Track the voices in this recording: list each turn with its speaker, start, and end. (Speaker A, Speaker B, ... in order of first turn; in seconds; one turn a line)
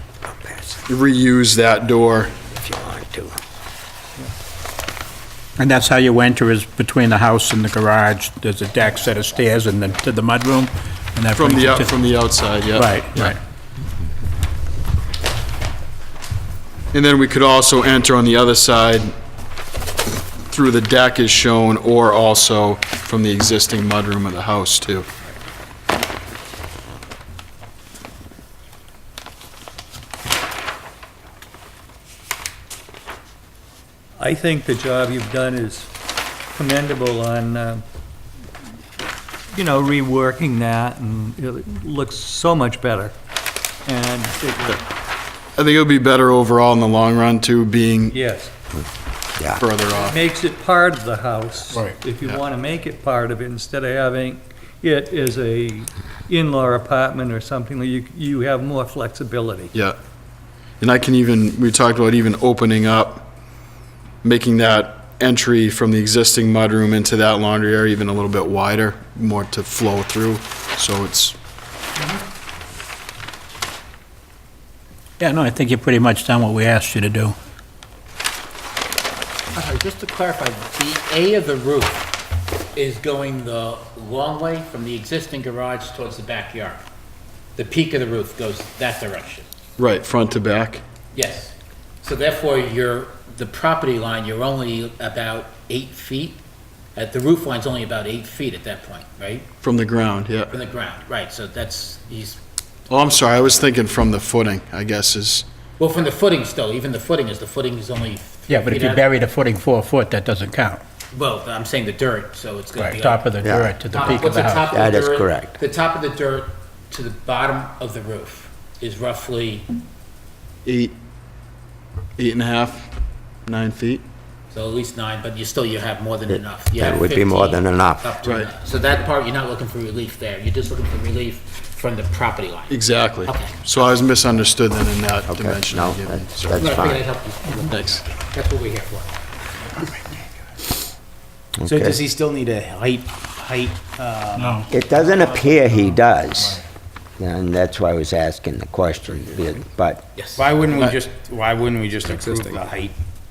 Speaker A: 0.2-0.8
Speaker B: 0.9-2.4
Speaker A: 2.4-3.4
Speaker C: 5.6-12.0
Speaker B: 11.3-13.3
Speaker C: 12.7-13.4
Speaker B: 16.9-19.1
Speaker B: 20.5-25.1
Speaker D: 34.2-35.9
Speaker D: 36.5-37.8
Speaker D: 39.5-43.1
Speaker D: 43.9-44.8
Speaker B: 45.6-48.1
Speaker D: 48.1-48.5
Speaker A: 49.4-49.6
Speaker B: 49.6-50.2
Speaker D: 49.9-59.7
Speaker C: 51.7-52.0
Speaker B: 60.8-63.3
Speaker B: 64.2-71.4
Speaker C: 75.2-77.3
Speaker E: 79.5-82.1
Speaker E: 82.7-86.8
Speaker E: 87.6-89.5
Speaker B: 89.8-90.8
Speaker E: 91.1-96.4
Speaker E: 96.9-99.5
Speaker B: 99.6-100.5
Speaker E: 100.5-102.4
Speaker B: 102.9-105.5
Speaker E: 105.8-109.0
Speaker C: 108.5-110.8
Speaker E: 111.1-113.3
Speaker C: 112.8-114.7
Speaker A: 113.4-113.7
Speaker E: 113.9-119.7
Speaker A: 114.7-115.6
Speaker B: 120.6-120.9
Speaker B: 122.2-122.9
Speaker B: 123.5-124.0
Speaker E: 124.5-133.6
Speaker A: 126.3-128.0
Speaker B: 128.2-128.5
Speaker B: 132.7-136.3
Speaker A: 135.3-137.1
Speaker E: 136.5-139.1
Speaker B: 137.7-138.0
Speaker A: 141.6-142.0
Speaker F: 141.6-144.6
Speaker C: 144.3-145.8
Speaker A: 144.7-146.6
Speaker A: 147.2-150.0
Speaker E: 150.2-150.4
Speaker F: 150.3-152.9